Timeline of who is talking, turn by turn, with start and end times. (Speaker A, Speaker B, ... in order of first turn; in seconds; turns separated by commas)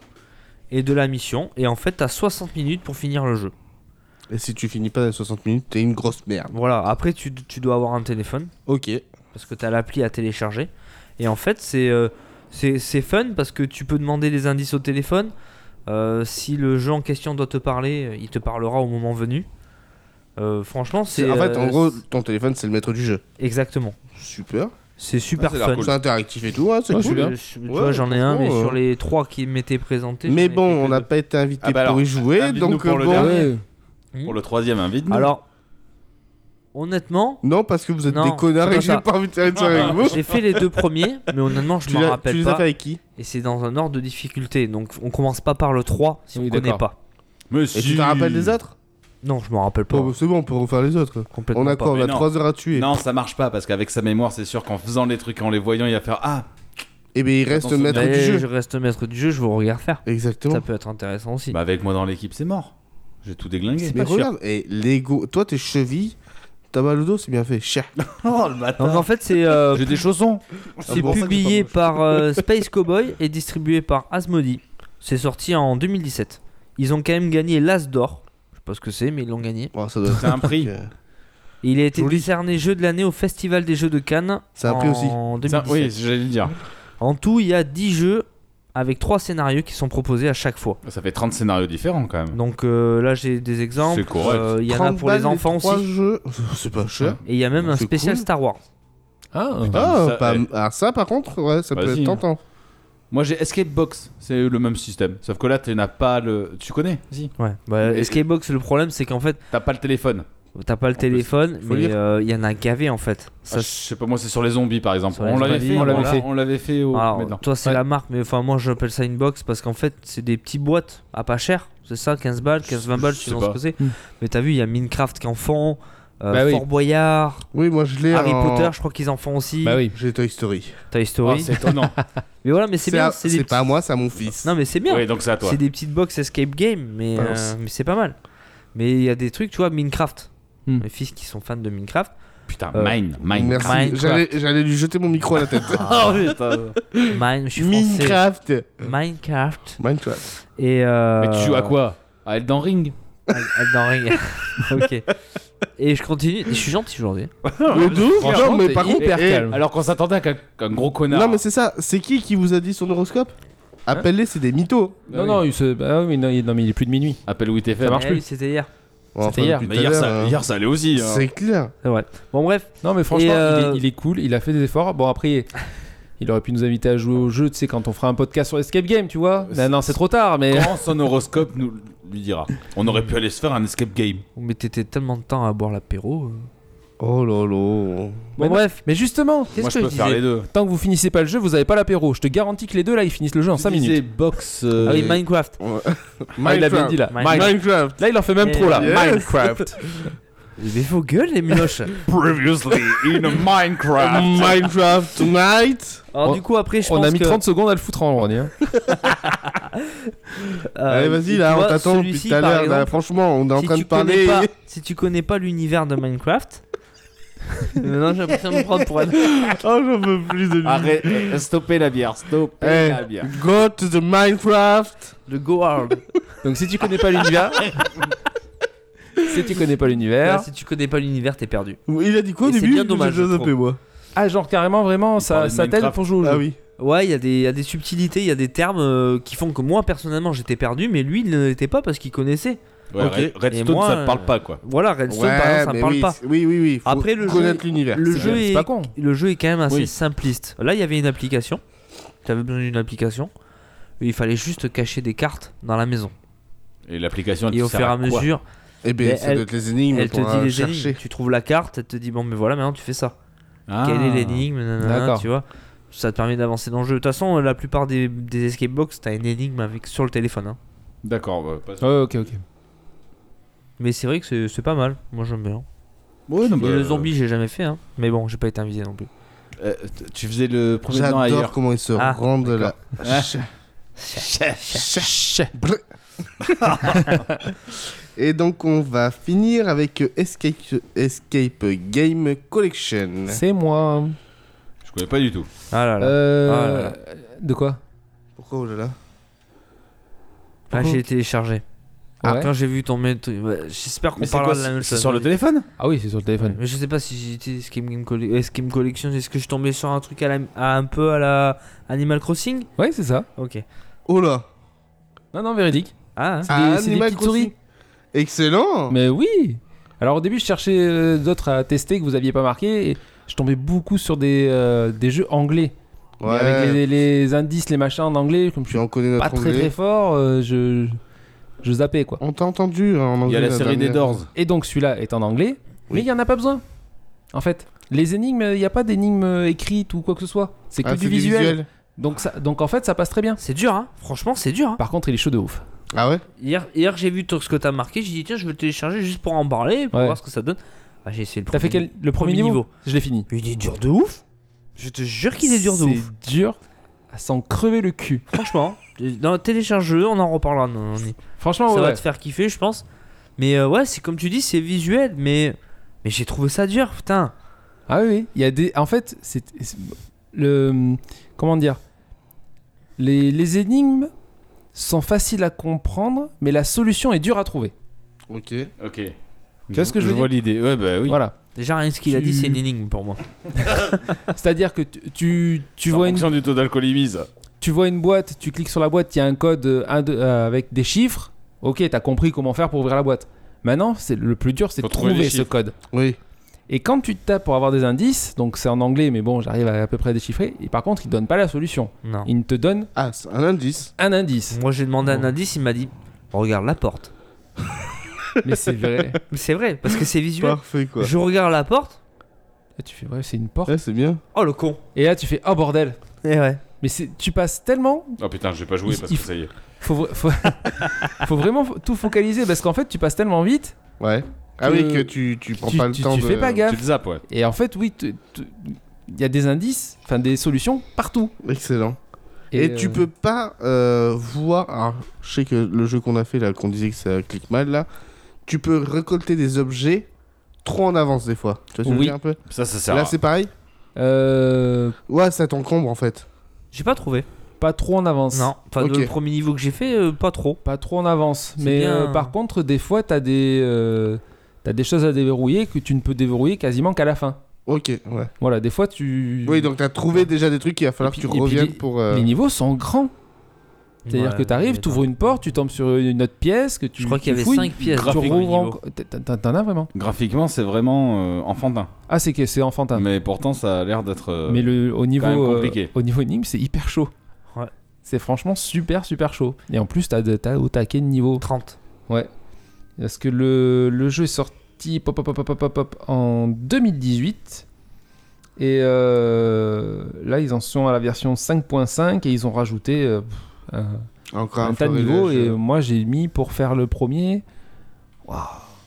Speaker A: 0.7-3.5, Speaker B: 4.3-6.5, Speaker A: 6.5-8.5, Speaker B: 8.7-9.0, Speaker A: 9.3-15.3, Speaker A: 15.8-19.5, Speaker A: 20.4-22.0, Speaker B: 21.1-23.2, Speaker A: 23.4-23.9, Speaker B: 24.1-24.7, Speaker A: 25.0-25.9, Speaker C: 25.4-26.0, Speaker B: 25.8-28.8, Speaker D: 26.9-27.3, Speaker A: 26.9-31.1, Speaker B: 30.3-33.4, Speaker C: 31.6-33.5, Speaker D: 33.1-33.6, Speaker C: 34.2-35.3, Speaker A: 35.1-35.4, Speaker A: 36.7-37.4, Speaker B: 37.4-40.2, Speaker A: 38.1-39.0, Speaker C: 39.5-40.3, Speaker A: 39.8-47.0, Speaker B: 41.8-43.0, Speaker D: 46.3-46.8, Speaker C: 47.5-48.5, Speaker B: 47.7-48.7, Speaker A: 49.2-50.1, Speaker B: 49.9-52.9, Speaker A: 51.3-52.0, Speaker C: 51.9-56.5, Speaker B: 57.1-58.5, Speaker C: 57.5-58.3, Speaker A: 57.9-61.6, Speaker B: 60.0-60.6, Speaker C: 61.5-62.7, Speaker C: 63.2-64.0, Speaker A: 63.8-64.3, Speaker B: 63.9-66.2, Speaker B: 66.7-67.9, Speaker C: 68.0-71.7, Speaker A: 68.8-70.0, Speaker B: 70.9-71.5, Speaker A: 70.9-79.7, Speaker B: 79.7-80.9, Speaker C: 80.1-80.7, Speaker A: 81.6-85.9, Speaker B: 81.9-82.3, Speaker B: 84.6-85.2, Speaker C: 85.5-86.5, Speaker A: 87.0-90.8, Speaker C: 90.8-92.4, Speaker A: 92.3-95.8, Speaker C: 93.8-94.5, Speaker B: 94.3-98.2, Speaker A: 97.2-98.6, Speaker D: 99.3-99.8, Speaker C: 99.7-100.5, Speaker B: 99.7-102.4, Speaker C: 101.7-102.2, Speaker C: 103.1-108.2, Speaker A: 107.4-109.4, Speaker C: 109.5-110.2, Speaker A: 110.5-113.7, Speaker C: 111.0-111.3, Speaker B: 111.7-111.9, Speaker C: 113.5-117.4, Speaker A: 115.1-116.2, Speaker D: 115.4-116.2, Speaker A: 116.9-127.5, Speaker C: 122.6-123.6, Speaker D: 126.3-126.6, Speaker B: 127.5-128.7, Speaker A: 128.1-129.8, Speaker D: 129.6-129.9, Speaker B: 129.9-130.8, Speaker A: 130.9-131.6, Speaker C: 131.2-131.9, Speaker D: 131.6-132.1, Speaker A: 132.4-133.6, Speaker B: 132.8-134.5, Speaker A: 134.4-138.2, Speaker C: 134.9-135.6, Speaker B: 137.2-137.5, Speaker A: 138.7-142.1, Speaker C: 142.5-143.9, Speaker A: 142.7-143.0, Speaker B: 143.3-146.3, Speaker A: 143.6-144.3, Speaker C: 145.5-146.8, Speaker B: 146.9-148.8, Speaker A: 147.1-148.2, Speaker A: 148.8-151.7, Speaker B: 149.8-150.2, Speaker C: 151.2-152.9, Speaker A: 153.3-155.1, Speaker A: 155.8-157.3, Speaker C: 157.4-161.4, Speaker B: 157.7-159.5, Speaker D: 158.1-159.6, Speaker B: 161.1-163.3, Speaker B: 163.8-165.0, Speaker C: 165.1-165.4, Speaker D: 165.1-167.2, Speaker C: 167.3-168.0, Speaker D: 167.8-168.2, Speaker A: 167.9-168.7, Speaker B: 169.1-170.4, Speaker D: 169.2-169.7, Speaker C: 169.6-171.3, Speaker B: 170.9-171.7, Speaker A: 171.8-173.8, Speaker D: 172.8-175.6, Speaker D: 176.2-180.8, Speaker C: 179.5-179.8, Speaker C: 180.5-184.2, Speaker A: 184.3-186.5, Speaker B: 187.0-188.3, Speaker A: 188.4-188.8, Speaker D: 188.4-194.0, Speaker C: 189.6-190.5, Speaker C: 193.6-195.2, Speaker A: 194.9-195.6, Speaker B: 195.6-198.0, Speaker D: 196.4-199.8, Speaker A: 197.1-197.5, Speaker A: 198.4-199.0, Speaker B: 198.7-200.1, Speaker A: 200.6-201.9, Speaker C: 202.0-204.7, Speaker B: 204.0-206.0, Speaker A: 206.1-207.4, Speaker D: 206.2-208.5, Speaker A: 209.3-210.1, Speaker A: 210.6-213.0, Speaker B: 210.9-214.5, Speaker A: 213.5-216.6, Speaker A: 217.7-219.3, Speaker B: 219.2-221.4, Speaker C: 220.6-223.3, Speaker B: 222.6-225.2, Speaker A: 225.3-226.0, Speaker D: 226.4-227.9, Speaker D: 229.2-230.5, Speaker A: 230.2-231.8, Speaker B: 231.9-233.8, Speaker A: 232.4-233.5, Speaker D: 234.1-236.4, Speaker C: 235.2-236.0, Speaker B: 236.2-236.6, Speaker A: 236.8-242.6, Speaker C: 242.9-244.6, Speaker B: 243.0-243.3, Speaker A: 243.5-246.2, Speaker B: 245.1-248.4, Speaker A: 246.8-251.6, Speaker D: 248.1-248.9, Speaker A: 252.2-253.3, Speaker A: 254.0-256.1, Speaker C: 256.9-258.3, Speaker A: 257.5-258.4, Speaker B: 258.8-261.0, Speaker A: 259.0-263.1, Speaker C: 263.7-264.4, Speaker A: 263.8-270.6, Speaker D: 264.8-265.2, Speaker C: 271.0-272.1, Speaker D: 271.8-272.4, Speaker A: 273.8-275.6, Speaker C: 276.3-277.1, Speaker A: 276.4-279.1, Speaker C: 279.6-281.5, Speaker B: 280.9-283.5, Speaker A: 281.9-282.7, Speaker C: 283.0-283.4, Speaker A: 284.0-284.8, Speaker C: 284.1-284.8, Speaker B: 284.7-285.8, Speaker D: 284.9-285.5, Speaker C: 286.5-287.1, Speaker B: 288.1-293.4, Speaker D: 293.3-294.2, Speaker C: 294.8-295.5, Speaker A: 295.7-296.9, Speaker D: 296.0-297.8, Speaker B: 298.4-298.9, Speaker A: 300.7-301.6, Speaker B: 300.7-301.0, Speaker D: 302.2-302.5, Speaker A: 302.2-305.3, Speaker C: 304.2-305.7, Speaker D: 305.8-306.6, Speaker A: 306.4-312.7, Speaker D: 312.8-313.3, Speaker A: 313.4-313.6, Speaker B: 314.1-314.5, Speaker D: 315.3-315.9, Speaker A: 316.1-316.5, Speaker D: 316.4-317.5, Speaker B: 316.5-317.5, Speaker B: 318.1-319.0, Speaker D: 318.9-331.0, Speaker B: 326.2-326.8, Speaker B: 328.7-329.7, Speaker D: 331.6-332.2, Speaker B: 332.2-334.2, Speaker C: 333.2-334.3, Speaker D: 334.3-336.6, Speaker D: 337.3-343.4, Speaker B: 340.8-341.7, Speaker A: 343.4-344.8, Speaker D: 344.8-345.6, Speaker B: 345.9-346.2, Speaker A: 346.4-352.7, Speaker D: 349.9-350.2, Speaker D: 351.5-353.3, Speaker A: 353.3-354.2, Speaker A: 354.8-356.1, Speaker D: 355.4-356.6, Speaker D: 357.1-358.2, Speaker A: 358.3-361.2, Speaker D: 361.4-362.0, Speaker A: 361.7-362.8, Speaker A: 363.4-367.3, Speaker D: 367.9-371.8, Speaker D: 373.0-374.1, Speaker D: 374.7-377.7, Speaker B: 378.3-378.7, Speaker C: 378.8-379.1, Speaker C: 379.7-381.2, Speaker D: 379.7-380.3, Speaker D: 381.1-381.3, Speaker A: 381.5-383.2, Speaker D: 382.1-382.6, Speaker D: 384.3-386.3, Speaker C: 385.9-387.3, Speaker D: 387.6-395.7, Speaker C: 394.8-395.5, Speaker B: 395.9-396.2, Speaker D: 396.7-402.9, Speaker A: 402.0-402.3, Speaker B: 402.9-403.9, Speaker D: 404.0-405.2, Speaker A: 404.5-407.1, Speaker D: 408.4-409.2, Speaker A: 409.3-412.0, Speaker B: 410.4-411.1, Speaker D: 412.8-413.8, Speaker B: 413.7-414.2, Speaker A: 414.3-414.8, Speaker D: 414.9-416.0, Speaker A: 416.2-416.6, Speaker D: 416.8-418.2, Speaker C: 418.2-419.5, Speaker D: 418.9-419.3, Speaker D: 419.8-423.8, Speaker B: 424.0-426.6, Speaker D: 424.6-431.3, Speaker C: 426.6-427.2, Speaker B: 431.4-432.0, Speaker D: 432.5-433.1, Speaker B: 432.5-437.9, Speaker B: 438.4-440.1, Speaker B: 440.6-443.5, Speaker D: 441.8-442.2, Speaker C: 442.5-443.2, Speaker D: 443.9-444.9, Speaker B: 445.1-446.2, Speaker A: 446.7-447.2, Speaker D: 447.6-448.5, Speaker A: 448.3-450.6, Speaker B: 448.8-449.1, Speaker D: 450.6-457.4, Speaker A: 451.6-452.3, Speaker B: 457.6-458.3, Speaker D: 458.4-459.7, Speaker B: 459.4-462.3, Speaker D: 461.0-463.1, Speaker A: 464.0-465.1, Speaker D: 464.1-469.9, Speaker A: 467.0-468.8, Speaker C: 467.9-468.4, Speaker C: 469.9-471.9, Speaker D: 472.1-473.1, Speaker C: 472.9-475.9, Speaker D: 474.5-477.1, Speaker D: 478.0-481.4, Speaker A: 481.4-481.8, Speaker D: 483.0-487.6, Speaker D: 488.6-494.1, Speaker B: 494.3-495.6, Speaker D: 494.6-497.4, Speaker D: 498.2-498.6